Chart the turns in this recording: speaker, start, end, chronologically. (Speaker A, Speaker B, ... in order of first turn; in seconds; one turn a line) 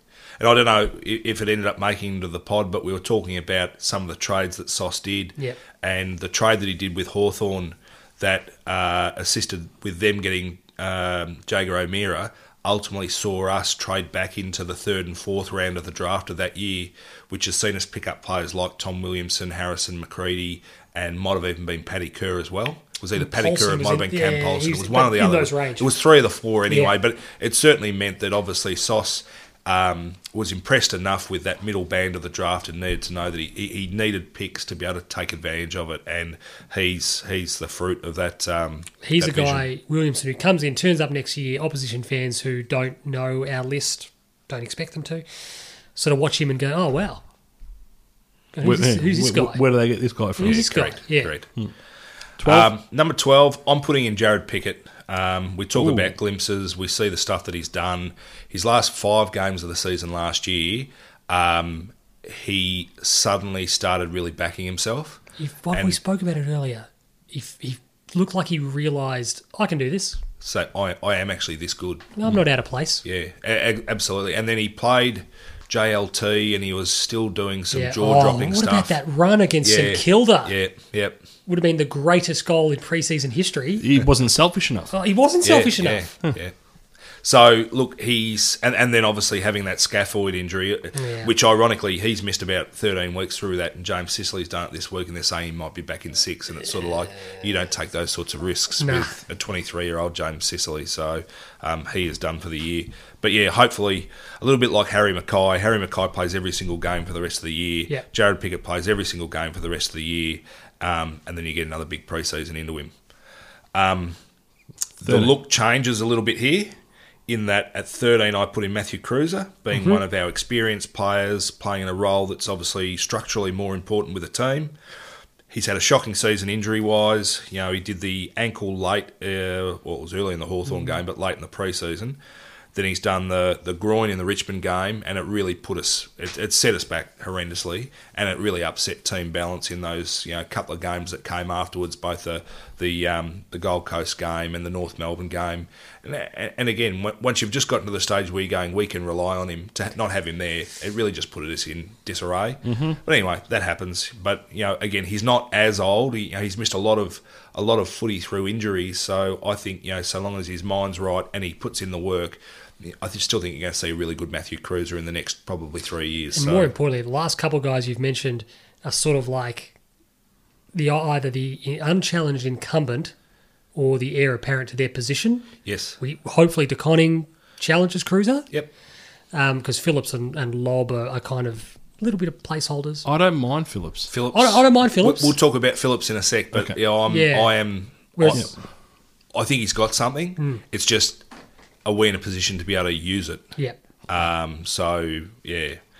Speaker A: 0.4-39.6
Speaker B: 23.1-25.9
Speaker B: 26.7-26.9
Speaker B: 39.0-45.2
Speaker B: 45.9-47.2
Speaker B: 48.5-49.6
Speaker C: 48.6-50.6
Speaker B: 50.4-51.3
Speaker A: 50.4-51.5
Speaker C: 52.4-52.7
Speaker A: 52.4-66.0
Speaker C: 55.8-56.1
Speaker B: 65.4-70.2
Speaker A: 70.4-72.1
Speaker B: 72.1-73.0
Speaker A: 73.0-79.0
Speaker B: 77.7-80.5
Speaker A: 79.6-81.2
Speaker B: 81.5-83.8
Speaker C: 83.8-84.9
Speaker B: 84.9-86.1
Speaker A: 85.4-86.5
Speaker A: 87.2-112.9
Speaker B: 90.9-91.3
Speaker B: 98.8-99.1
Speaker A: 113.7-114.2
Speaker A: 115.0-116.7
Speaker C: 115.0-115.3
Speaker A: 117.3-124.7
Speaker A: 125.5-132.2
Speaker A: 132.7-166.7
Speaker C: 152.7-153.0
Speaker B: 166.3-169.7
Speaker B: 170.7-173.1
Speaker B: 173.7-175.5
Speaker A: 175.6-176.0
Speaker B: 176.0-178.5
Speaker B: 179.3-183.1
Speaker C: 183.0-184.1
Speaker A: 184.1-188.5
Speaker B: 184.3-185.4
Speaker B: 187.1-187.6
Speaker B: 188.1-188.5
Speaker A: 189.3-191.2
Speaker A: 191.8-193.5
Speaker A: 194.1-195.8